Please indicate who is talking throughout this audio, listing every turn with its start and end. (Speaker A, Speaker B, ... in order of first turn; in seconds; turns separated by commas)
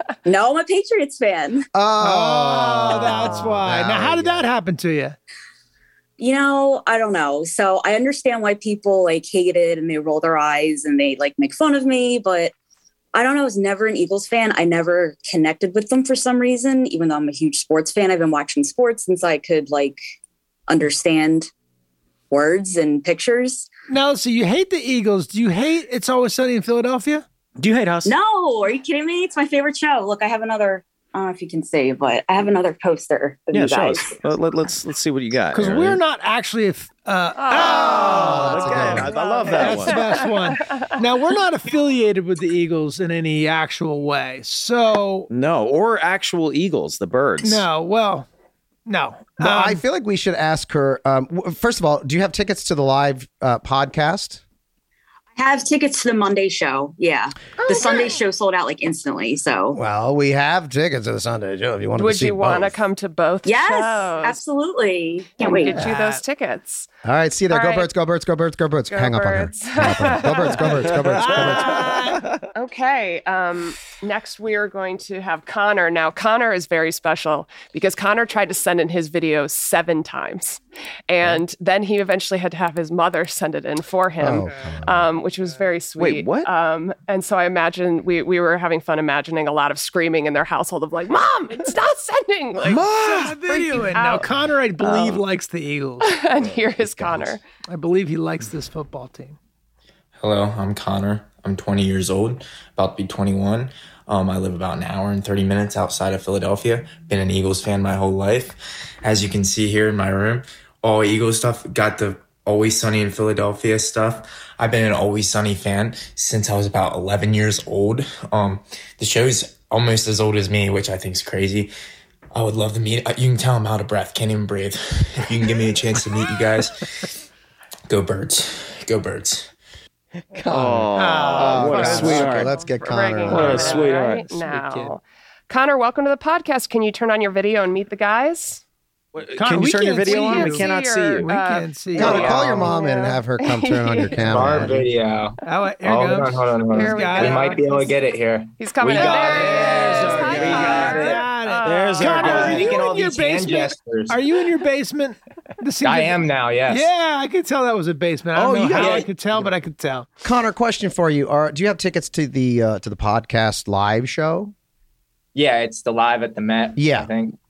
Speaker A: 0.2-1.7, Speaker B: 1.7-4.5, Speaker C: 2.0-5.2, Speaker A: 6.2-12.5, Speaker A: 13.1-20.0, Speaker A: 20.7-21.5, Speaker A: 22.3-23.7, Speaker C: 23.9-27.2, Speaker D: 27.6-28.1, Speaker A: 28.0-34.2, Speaker D: 33.5-36.0, Speaker C: 35.5-45.3, Speaker E: 37.4-40.9, Speaker D: 37.6-40.2, Speaker B: 38.0-39.1, Speaker D: 45.3-47.6, Speaker C: 47.4-48.3, Speaker C: 48.9-49.8, Speaker B: 49.4-54.4, Speaker A: 55.4-59.8, Speaker B: 59.7-62.8, Speaker E: 62.0-64.4, Speaker A: 63.4-65.9, Speaker E: 65.4-66.9, Speaker C: 65.7-66.2, Speaker B: 67.0-72.0, Speaker E: 67.5-67.9, Speaker E: 68.9-70.9, Speaker D: 70.9-72.3, Speaker C: 71.2-72.2, Speaker E: 72.5-94.3, Speaker B: 84.2-85.1, Speaker D: 86.0-86.5, Speaker C: 92.7-96.1, Speaker D: 92.7-93.4, Speaker D: 94.8-95.2, Speaker E: 96.0-97.4, Speaker B: 96.4-97.4, Speaker C: 97.7-99.4, Speaker F: 100.2-121.7, Speaker F: 122.3-127.1, Speaker F: 127.9-129.5, Speaker B: 130.3-133.7, Speaker D: 130.5-132.5, Speaker C: 130.9-132.5, Speaker E: 131.6-138.6, Speaker C: 133.3-134.9, Speaker D: 133.3-134.2, Speaker D: 139.1-141.3, Speaker C: 139.3-140.7, Speaker E: 140.0-144.5, Speaker C: 141.2-142.8, Speaker B: 141.9-144.9, Speaker G: 142.0-142.5, Speaker G: 144.3-151.3, Speaker C: 145.4-147.9, Speaker E: 146.7-148.0, Speaker E: 148.6-152.8, Speaker D: 148.9-152.7, Speaker C: 149.0-160.1, Speaker G: 152.1-154.2, Speaker G: 155.8-156.9, Speaker D: 158.4-159.1, Speaker G: 158.7-159.1, Speaker B: 160.2-164.5, Speaker G: 165.3-167.4, Speaker B: 166.8-167.1